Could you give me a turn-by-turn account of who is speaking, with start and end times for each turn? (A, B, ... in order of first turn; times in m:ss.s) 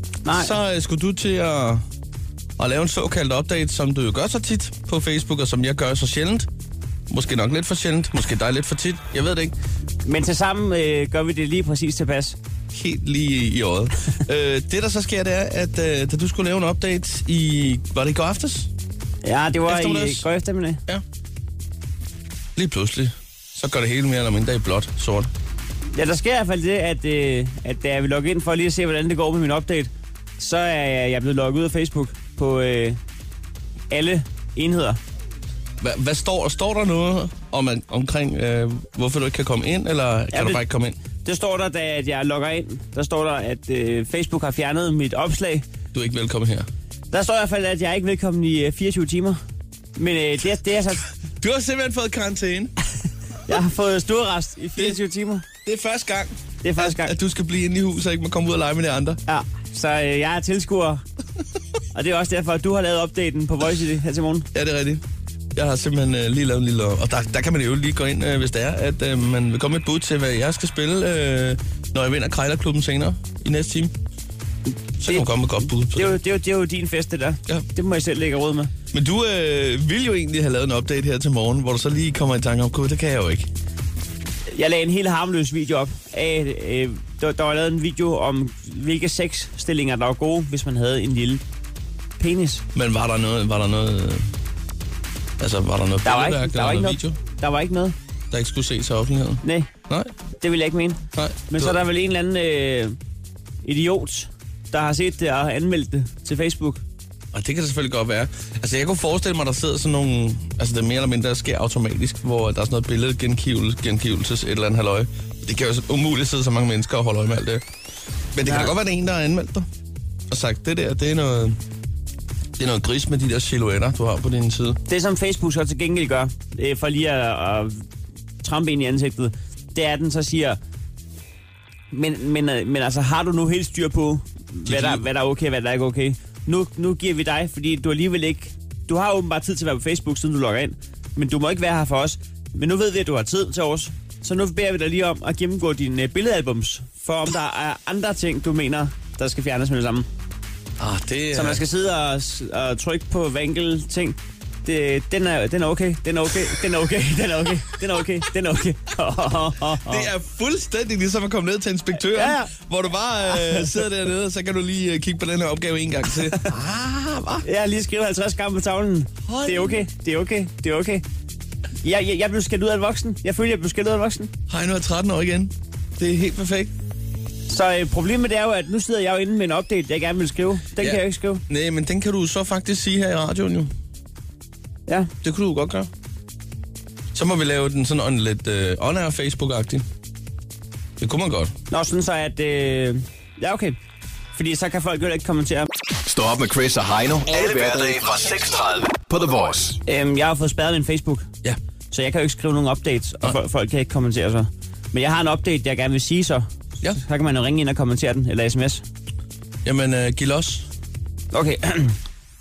0:00.2-0:00.5 A
0:00.3-0:01.8 B
0:02.6-0:06.5 B
0:07.1-0:09.5 B
0:10.0-0:12.4 A
0:12.7-0:18.7 B
0:19.2-0:20.8 A
0:19.7-0:20.3 B
0:22.6-0:25.3 B
0:25.9-0:33.0 A
0:33.9-0:35.0 A
0:35.8-0:41.0 B
0:40.3-0:40.6 A
0:41.2-0:45.6 A
0:45.9-0:46.7 B
0:47.1-0:49.4 A
0:50.0-0:51.1 A
0:51.4-0:52.7 B
0:53.5-0:55.4 A
0:55.6-0:59.2 B
0:56.6-0:57.1 A
0:59.3-1:01.0 A
1:01.9-1:04.5 A
1:04.5-1:05.0 B
1:05.6-1:13.9 B
1:15.0-1:16.2 B
1:15.0-1:18.7 A
1:18.9-1:23.5 B
1:24.5-1:31.4 A
1:32.2-1:32.6 A
1:32.8-1:34.3 B
1:35.4-1:37.2 B
1:36.0-1:38.0 A
1:38.3-1:40.1 B
1:39.4-1:39.7 A
1:40.4-1:43.0 A
1:41.2-1:41.8 B
1:43.6-1:46.8 A
1:47.3-1:57.6 B
1:58.4-1:59.7 B
1:58.4-1:58.7 A
2:00.3-2:01.6 B
2:02.6-2:04.8 B
2:04.9-2:07.8 A
2:08.4-2:10.6 A
2:11.9-2:30.1 A
2:14.6-2:15.0 B
2:30.8-2:31.6 B
2:31.3-2:40.1 A
2:39.9-2:47.4 B
2:42.2-2:42.5 A
2:47.4-2:51.0 A
2:49.3-2:49.8 B
2:51.8-2:54.3 A
2:54.5-2:56.7 B
2:57.5-3:01.4 A
3:00.8-3:03.7 B
3:05.2-3:05.9 B
3:07.1-3:09.8 B
3:11.0-3:11.5 B
3:11.7-3:13.8 A
3:14.3-3:15.7 A
3:16.0-3:19.8 C
3:17.3-3:18.1 B
3:19.9-3:21.3 A
3:21.9-3:28.8 A
3:29.6-3:30.7 B
3:31.3-3:32.0 A